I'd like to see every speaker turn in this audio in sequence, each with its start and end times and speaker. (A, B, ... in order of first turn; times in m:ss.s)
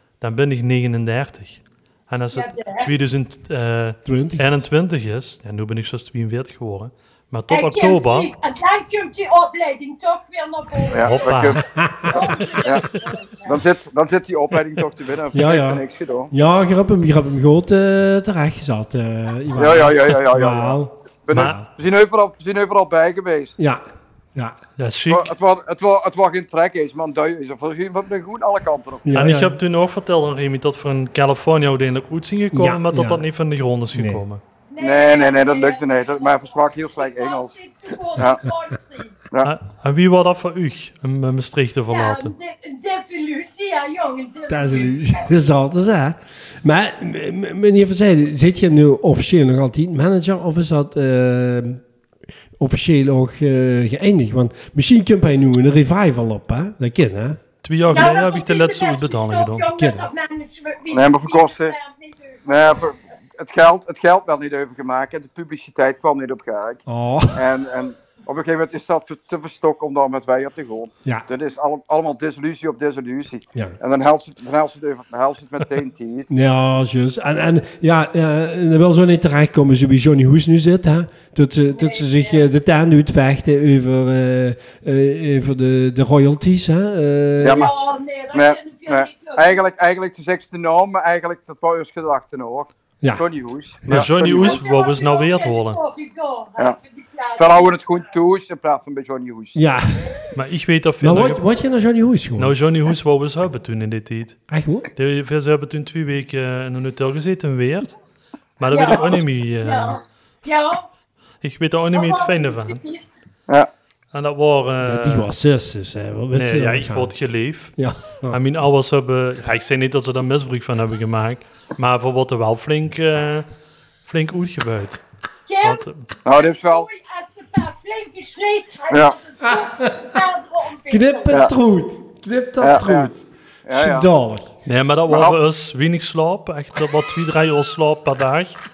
0:00.2-0:08.3 A
0:02.3-0:02.9 B
0:04.0-0:04.5 C
0:07.5-0:13.6 B
0:10.9-0:12.9 D
0:11.0-0:11.6 A
0:11.7-0:12.1 C
0:13.4-0:16.3 D
0:15.3-0:20.9 C
0:19.6-0:23.6 D
0:21.3-0:21.6 A
0:23.6-0:24.6 C
0:24.8-0:25.3 A
0:25.1-0:29.2 D
0:29.0-0:29.6 C
0:29.1-0:34.4 A
0:32.5-0:33.3 C
0:33.9-0:34.2 C
0:34.7-0:39.2 B
0:34.8-0:37.6 D
0:38.2-0:38.4 D
0:39.4-0:42.3 A
0:41.9-0:45.3 B
0:44.5-0:51.8 C
0:52.6-0:57.4 C
0:57.6-0:59.7 A
0:57.9-1:02.5 B
0:59.8-1:00.1 C
1:00.9-1:01.8 D
1:02.5-1:06.8 D
1:06.9-1:07.4 C
1:07.3-1:16.3 D
1:16.3-1:27.7 C
1:21.7-1:22.4 B
1:27.4-1:27.7 D
1:27.4-1:29.6 B
1:28.3-1:34.6 D
1:33.8-1:34.1 C
1:33.9-1:35.8 A
1:34.3-1:38.1 B
1:37.4-1:39.6 D
1:39.6-1:40.2 C
1:40.3-1:41.4 A
1:41.0-1:42.6 C
1:42.4-1:44.4 A
1:44.5-1:44.9 C
1:45.0-1:48.0 A
1:48.6-1:50.0 A
1:48.7-1:50.9 B
1:51.4-1:52.8 A
1:51.9-1:53.2 B
1:54.1-1:55.3 A
1:54.8-1:57.2 C
1:56.3-1:57.8 A
1:57.8-1:58.4 C
1:58.3-2:03.5 A
2:04.0-2:05.0 A
2:05.5-2:11.4 B
2:05.6-2:06.1 A
2:06.2-2:06.9 D
2:08.9-2:09.2 D
2:09.4-2:10.0 C
2:10.9-2:14.5 C
2:12.6-2:13.1 D
2:13.7-2:14.1 D
2:14.7-2:18.6 A
2:15.1-2:15.4 D